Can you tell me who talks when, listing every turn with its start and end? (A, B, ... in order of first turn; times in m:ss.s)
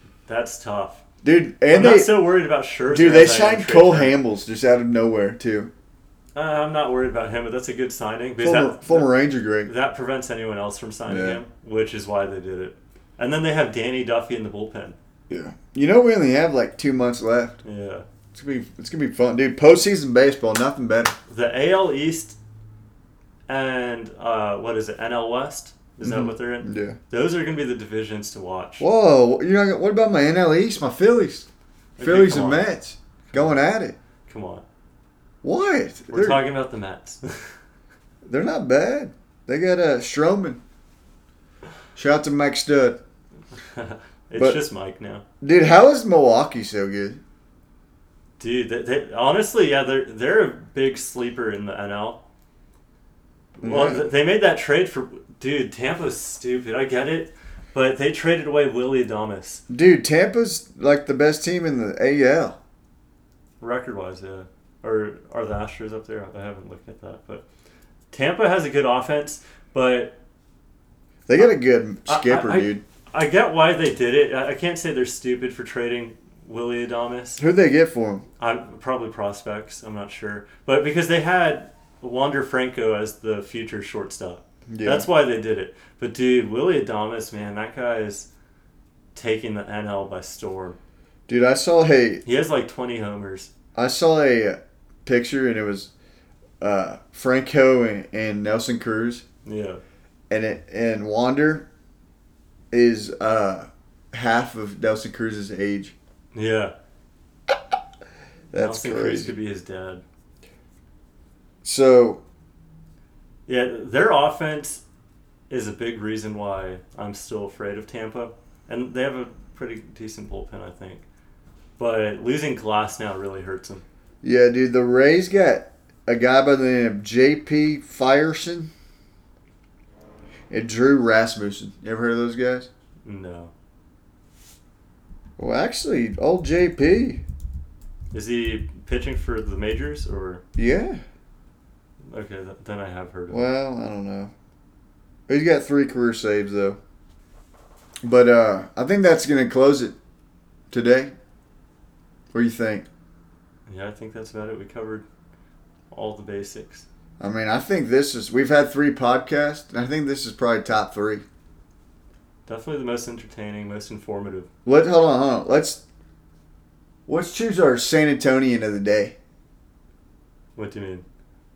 0:00.3-0:01.0 A
0:01.2-0:02.2 B
0:01.7-0:04.1 A
0:02.9-0:05.7 B
0:06.3-0:15.0 A
0:08.4-0:09.7 B
0:11.1-0:11.4 B
0:15.3-0:17.6 B
0:17.6-0:18.0 A
0:18.3-0:21.1 B
0:21.3-0:22.4 A
0:23.5-0:28.9 A
0:26.0-0:27.0 B
0:28.8-0:31.5 B
0:32.0-0:32.7 A
0:32.0-0:34.0 B
0:34.3-0:34.6 A
0:35.4-0:36.4 B
0:36.1-0:37.5 A
0:38.2-0:40.6 B
0:41.9-0:43.0 B
0:43.7-0:45.2 A
0:45.4-0:47.2 B
0:48.4-0:52.2 A
0:53.6-0:54.1 B
0:53.6-0:59.6 A
0:59.7-1:02.6 B
1:03.6-1:07.4 A
1:08.1-1:10.2 A
1:11.3-1:12.8 B
1:12.0-1:17.4 A
1:17.4-1:18.2 B
1:18.4-1:28.3 A
1:24.7-1:25.1 B
1:29.1-1:30.8 A
1:31.3-1:32.2 B
1:32.2-1:33.5 A
1:33.7-1:35.9 B
1:36.6-1:39.2 B
1:39.4-1:39.8 A
1:40.3-1:41.7 B
1:42.7-1:45.9 B
1:46.3-1:46.7 A
1:48.5-1:49.3 B
1:48.5-1:50.0 A
1:51.6-1:52.2 B
1:53.5-1:54.8 A
1:55.5-2:01.0 A
2:01.8-2:03.8 A
2:04.2-2:08.7 B
2:10.5-2:12.7 B
2:13.0-2:13.5 A
2:15.4-2:17.2 B
2:18.1-2:20.4 A
2:20.6-2:21.0 B
2:22.1-2:23.5 A
2:23.3-2:24.3 B
2:25.3-2:26.8 B
2:28.0-2:29.9 B
2:30.7-2:31.1 B
2:32.3-2:32.8 B
2:33.7-2:35.0 A
2:35.9-2:36.8 A
2:37.2-2:41.2 B
2:42.5-2:44.5 A
2:44.6-2:45.8 B
2:47.1-2:49.1 B
2:50.6-2:51.0 A